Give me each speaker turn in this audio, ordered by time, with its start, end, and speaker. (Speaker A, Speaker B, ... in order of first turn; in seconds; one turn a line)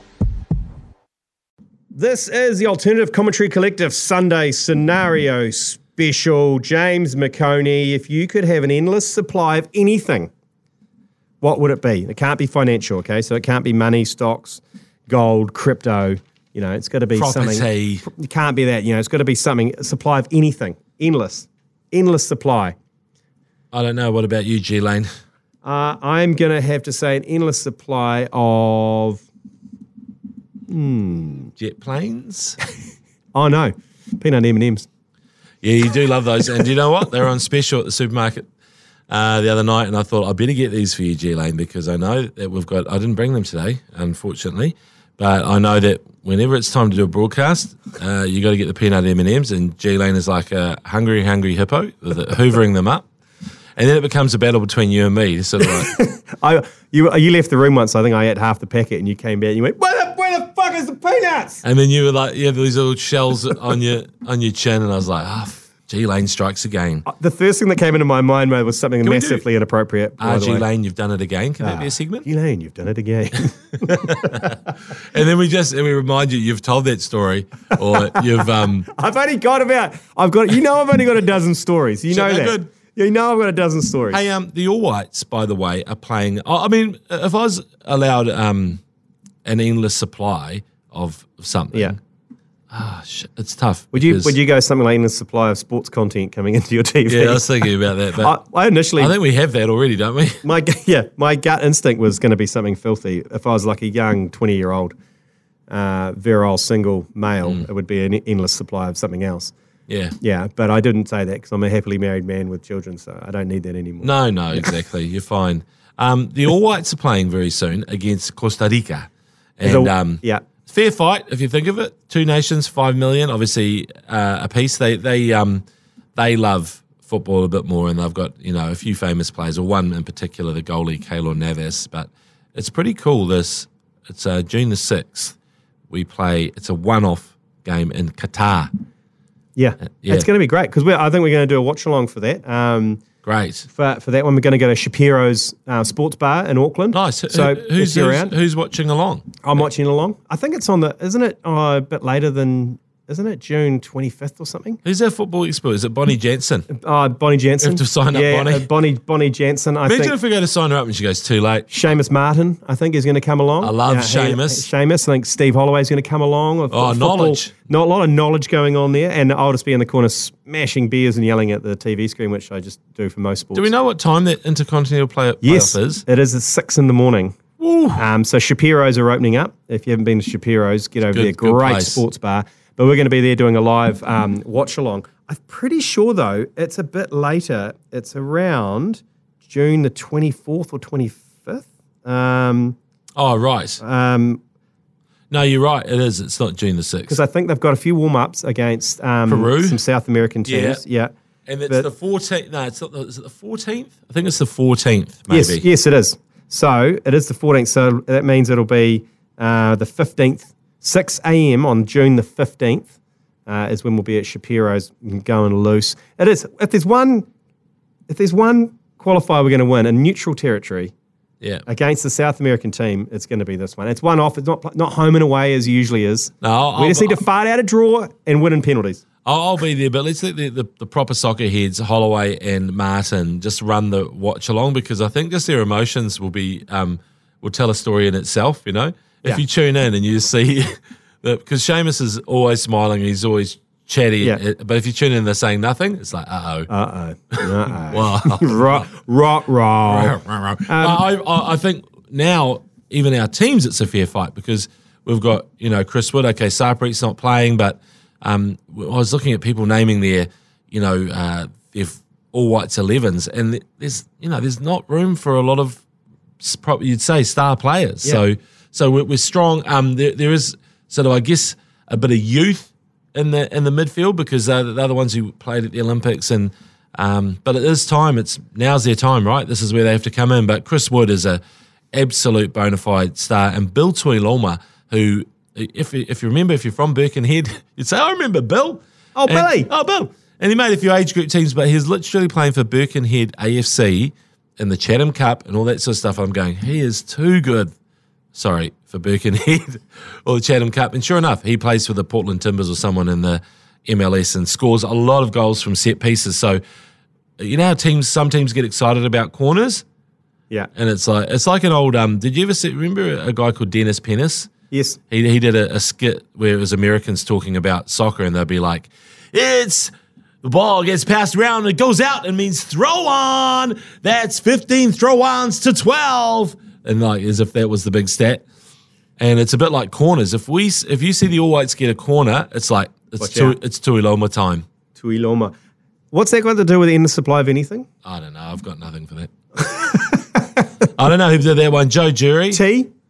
Speaker A: 1.9-10.3
Speaker A: 11.4-22.8
Speaker B: 17.2-18.1
Speaker B: 23.7-25.1
Speaker A: 25.6-29.2
Speaker A: 30.7-31.5
Speaker B: 31.6-32.6
Speaker A: 33.3-34.9
Speaker B: 35.6-38.5
Speaker B: 39.1-53.1
Speaker B: 53.8-56.0
Speaker A: 55.8-61.6
Speaker B: 61.6-67.0
Speaker A: 67.1-70.7
Speaker B: 69.0-69.4
Speaker B: 70.2-72.3
Speaker A: 71.6-74.5
Speaker B: 74.0-78.9
Speaker A: 78.9-84.2
Speaker B: 82.1-82.7
Speaker B: 84.1-88.8
Speaker B: 89.5-92.0
Speaker B: 92.7-94.3
Speaker A: 93.9-99.1
Speaker B: 97.1-98.3
Speaker B: 99.0-100.4
Speaker A: 100.4-104.9
Speaker A: 105.7-109.5
Speaker B: 109.9-110.2
Speaker A: 110.2-114.7
Speaker B: 114.0-125.6
Speaker A: 119.6-120.5
Speaker B: 126.2-135.3
Speaker B: 135.9-138.7
Speaker A: 139.6-143.0
Speaker B: 143.2-143.7
Speaker A: 143.7-148.3
Speaker B: 146.9-149.5
Speaker A: 149.4-154.8
Speaker B: 154.8-156.7
Speaker A: 156.7-160.2
Speaker B: 157.6-158.7
Speaker B: 159.8-161.7
Speaker A: 161.7-173.7
Speaker B: 163.6-164.7
Speaker B: 166.7-167.6
Speaker B: 173.6-176.0
Speaker A: 175.4-177.4
Speaker B: 177.6-178.1
Speaker A: 178.0-192.8
Speaker B: 181.1-182.0
Speaker B: 193.2-193.8
Speaker A: 193.8-194.4
Speaker B: 195.3-197.2
Speaker A: 197.1-201.1
Speaker B: 199.3-199.8
Speaker B: 200.5-200.8
Speaker B: 201.5-205.6
Speaker A: 205.3-212.9
Speaker A: 213.5-217.3
Speaker A: 218.1-220.9
Speaker A: 221.7-229.0
Speaker B: 226.4-227.2
Speaker B: 229.2-246.7
Speaker A: 246.7-250.2
Speaker B: 247.3-248.9
Speaker B: 249.9-265.8
Speaker A: 250.7-251.0
Speaker B: 266.4-281.4
Speaker B: 281.9-297.7
Speaker A: 289.2-289.7
Speaker B: 298.3-306.6
Speaker B: 307.4-309.8
Speaker B: 310.8-314.5
Speaker A: 314.7-315.0
Speaker B: 315.1-319.9
Speaker B: 320.4-328.4
Speaker B: 329.2-334.6
Speaker A: 333.2-333.6
Speaker A: 334.9-335.5
Speaker A: 336.1-337.9
Speaker B: 338.0-340.1
Speaker A: 340.0-340.4
Speaker B: 340.9-342.6
Speaker A: 342.5-342.9